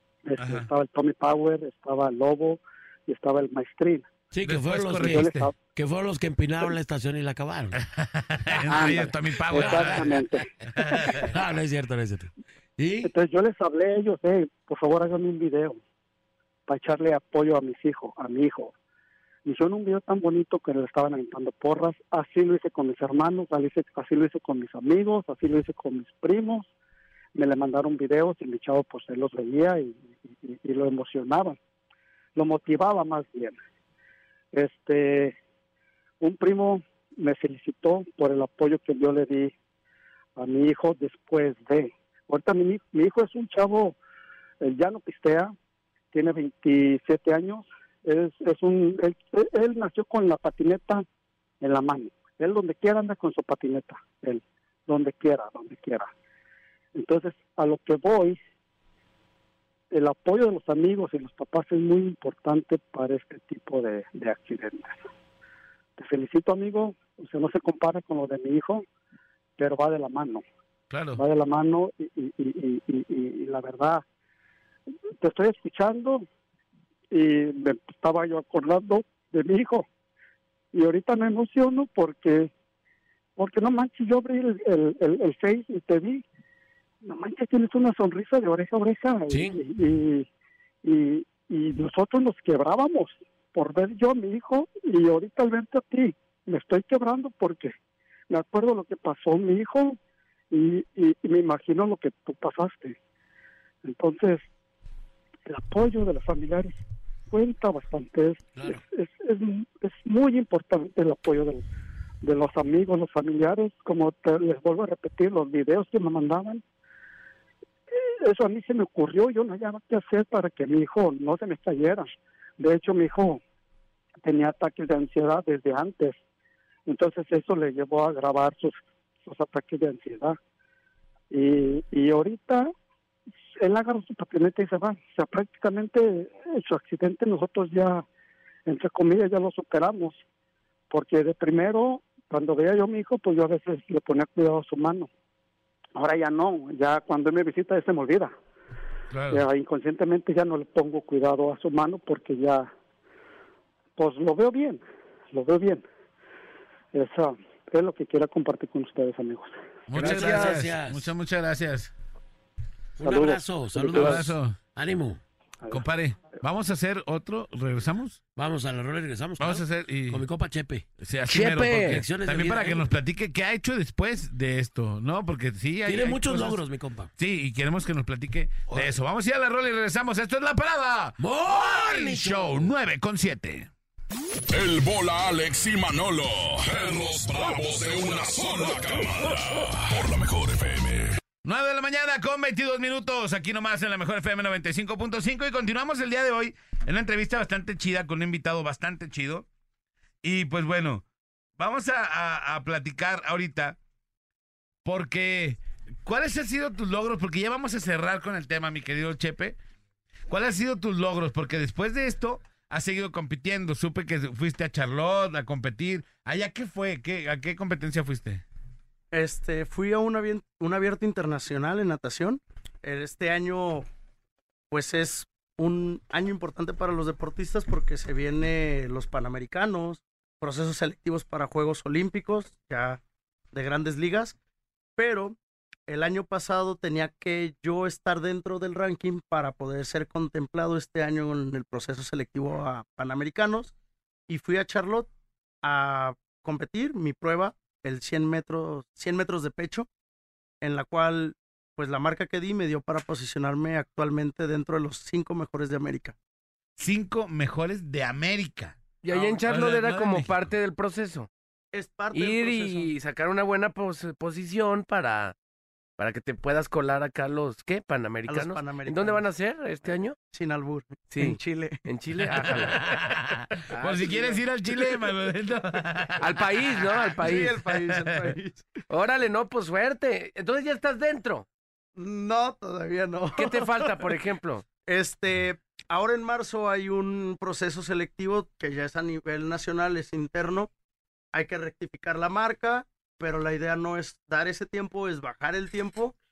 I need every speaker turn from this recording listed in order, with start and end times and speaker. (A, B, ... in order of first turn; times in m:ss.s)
0:00.2-0:04.1 A
0:00.4-0:00.7 B
0:04.3-0:07.8 C
0:04.4-0:05.5 B
0:05.0-0:05.5 A
0:07.7-0:11.3 B
0:08.5-0:10.2 C
0:08.7-0:11.2 A
0:11.1-0:13.1 C
0:13.0-0:15.8 A
0:16.7-0:18.7 A
0:19.4-0:26.7 A
0:27.3-0:31.6 A
0:32.3-0:33.6 A
0:34.5-0:35.3 A
0:36.2-0:39.5 A
0:40.4-0:44.0 A
0:44.6-0:45.5 A
0:46.1-0:51.0 A
0:51.6-0:56.1 A
0:56.9-0:58.4 A
0:59.9-1:05.0 A
1:06.0-1:08.8 A
1:09.6-1:10.4 A
1:10.9-1:11.2 B
1:11.2-1:14.0 A
1:15.2-1:16.2 A
1:17.1-1:19.9 A
1:20.7-1:22.5 A
1:23.4-1:26.2 A
1:27.0-1:30.3 A
1:29.3-1:29.6 C
1:30.8-1:37.7 A
1:38.3-1:40.0 A
1:40.5-1:43.0 A
1:43.8-1:44.4 A
1:45.5-1:46.8 A
1:47.3-1:51.6 A
1:48.5-1:48.8 C
1:52.2-1:56.6 A
1:57.9-2:02.1 A
2:02.6-2:03.4 A
2:04.2-2:06.2 A
2:06.9-2:10.4 A
2:11.3-2:12.7 A
2:13.6-2:18.0 A
2:18.7-2:20.2 A
2:20.9-2:25.1 A
2:26.0-2:28.3 A
2:29.1-2:29.4 B
2:29.3-2:32.7 A
2:34.0-2:35.8 A
2:36.9-2:39.6 A
2:39.9-2:41.9 B
2:39.9-2:41.1 C
2:43.0-2:45.2 C
2:43.0-2:44.1 A
2:43.9-2:44.6 B
2:45.7-2:48.2 B
2:48.4-2:52.9 C
2:49.4-2:50.3 B
2:51.0-2:56.6 B
2:51.3-2:52.0 D
2:55.8-2:57.1 C
2:57.2-3:03.7 B
2:58.7-2:59.0 C
3:01.2-3:02.7 C
3:04.5-3:11.2 E
3:11.4-3:19.5 B
3:20.2-3:21.0 B
3:21.6-3:23.8 B
3:24.8-3:29.6 B
3:30.3-3:38.4 B
3:39.1-3:43.9 F
3:44.7-3:53.0 F
3:53.5-3:54.4 F
3:55.0-3:55.4 F
3:55.9-4:03.7 F
4:04.3-4:05.1 F
4:05.6-4:09.9 F
4:10.6-4:16.2 F
4:16.8-4:18.8 B
4:19.0-4:21.3 D
4:19.4-4:20.5 B
4:21.7-4:22.9 F
4:22.1-4:25.3 D
4:26.0-4:30.2 D
4:28.2-4:29.2 F
4:30.3-4:31.8 F
4:31.1-4:32.9 D
4:32.3-4:32.8 F
4:32.4-4:36.4 B
4:33.7-4:34.4 D
4:36.2-4:37.5 D
4:37.2-4:38.7 F
4:38.0-4:38.3 B
4:38.9-4:41.4 D
4:42.0-4:44.0 F
4:43.4-4:44.6 D
4:44.8-4:50.7 F
4:51.3-4:56.1 F